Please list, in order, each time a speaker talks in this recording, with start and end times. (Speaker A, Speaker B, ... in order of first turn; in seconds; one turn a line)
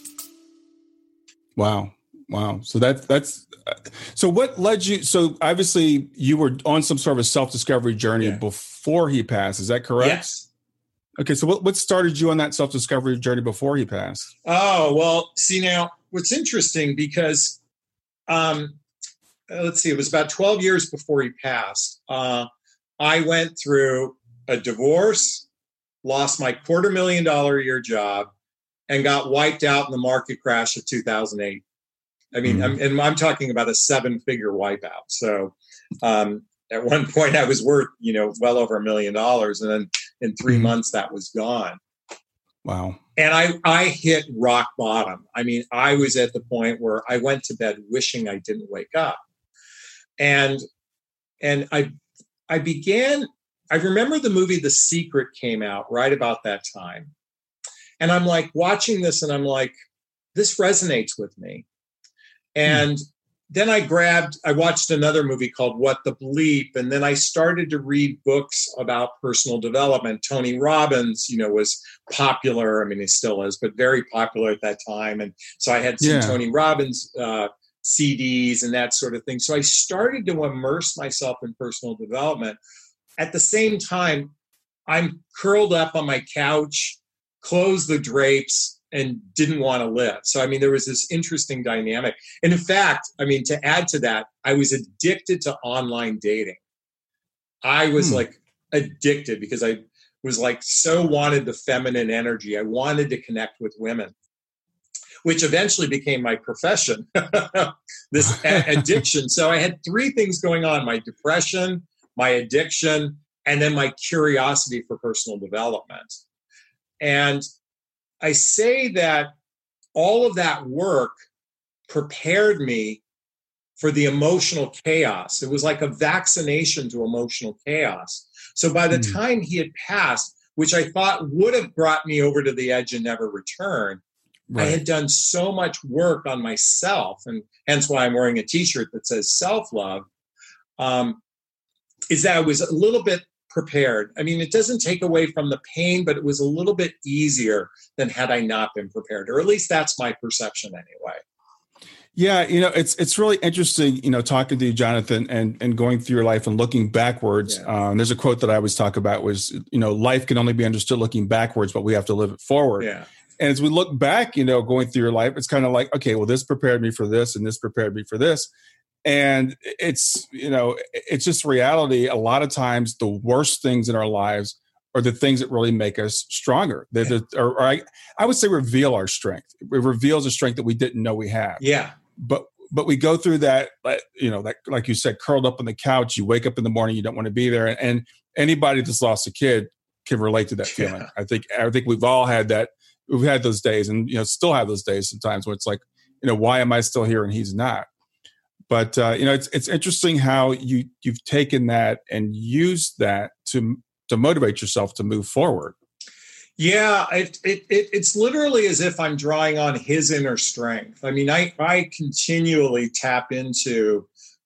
Speaker A: 1.6-10.4
Speaker B: 10.0-10.5
Speaker A: 11.2-14.3
Speaker B: 14.4-17.6
Speaker B: 18.3-18.8
Speaker B: 19.5-25.5
Speaker B: 26.0-28.3
Speaker B: 28.9-31.6
Speaker B: 32.3-41.8
Speaker A: 32.5-32.7
Speaker A: 42.6-43.0
Speaker B: 43.2-49.2
Speaker B: 50.2-50.6
Speaker B: 51.4-52.0
Speaker B: 52.5-57.1
Speaker B: 58.0-59.7
Speaker B: 60.4-61.6
Speaker B: 62.5-82.6
Speaker A: 76.0-76.4
Speaker B: 83.2-84.3
Speaker B: 84.9-96.6
Speaker B: 97.6-104.1
Speaker B: 105.2-116.2
Speaker B: 117.0-117.5
Speaker B: 118.2-119.3
Speaker B: 120.0-121.1
Speaker B: 121.9-123.0
Speaker B: 123.8-134.0
Speaker A: 134.5-134.8
Speaker B: 134.6-140.1
Speaker B: 140.8-141.2
Speaker B: 142.1-151.2
Speaker A: 152.2-168.5
Speaker B: 162.8-163.1
Speaker A: 169.1-181.6
Speaker B: 181.6-182.0
Speaker A: 182.2-197.9
Speaker B: 190.7-191.1
Speaker A: 198.7-205.8
Speaker B: 206.6-214.1